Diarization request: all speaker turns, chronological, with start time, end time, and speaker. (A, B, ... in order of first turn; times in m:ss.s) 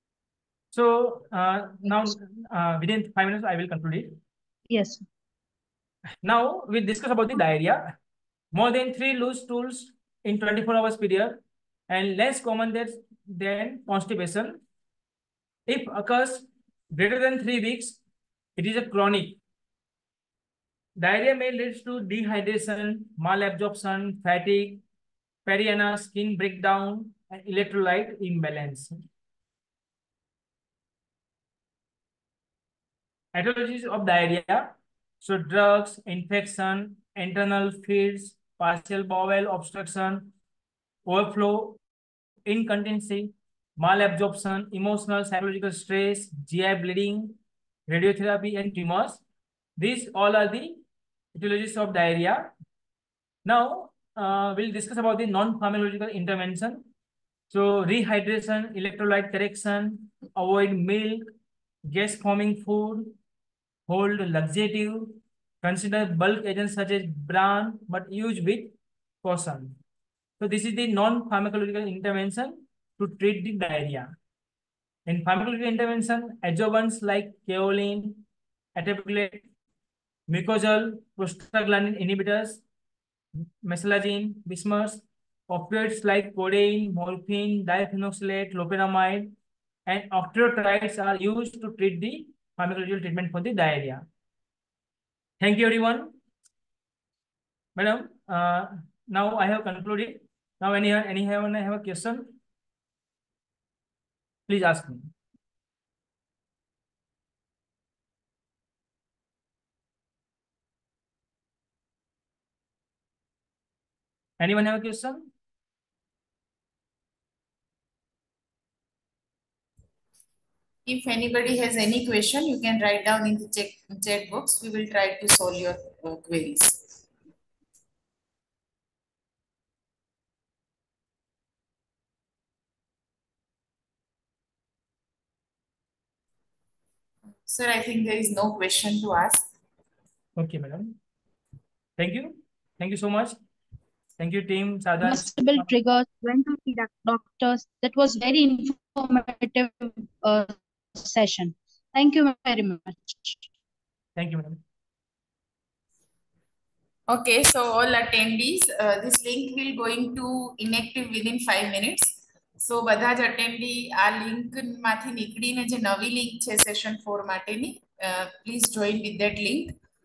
0:00.7-0:04.2 A
0:04.7-0:05.0 B
0:06.2-0:07.9 A
0:08.5-0:14.6 A
0:15.7-0:18.0 A
0:18.6-0:19.4 A
0:21.0-0:24.8 A
0:25.4-0:29.0 A
0:33.3-0:40.3 A
0:41.1-0:41.8 A
0:42.5-0:47.4 A
0:47.9-0:49.2 A
0:49.8-0:50.8 A
0:51.4-0:52.5 A
0:53.4-0:56.9 A
0:57.5-1:01.3 A
1:01.8-1:03.1 A
1:03.9-1:09.8 A
1:10.4-1:14.1 A
1:15.1-1:18.2 A
1:18.8-1:19.4 A
1:20.3-1:22.6 A
1:23.4-1:29.3 A
1:29.9-1:34.0 A
1:35.4-1:36.1 A
1:37.8-1:42.4 A
1:44.5-1:45.1 A
1:54.4-1:55.3 A
2:00.9-2:07.0 C
2:17.5-2:19.5 C
2:20.4-2:21.0 A
2:22.0-2:23.4 A
2:24.2-2:25.7 A
2:25.0-2:33.4 B
2:34.2-2:34.6 A
2:37.1-2:49.7 C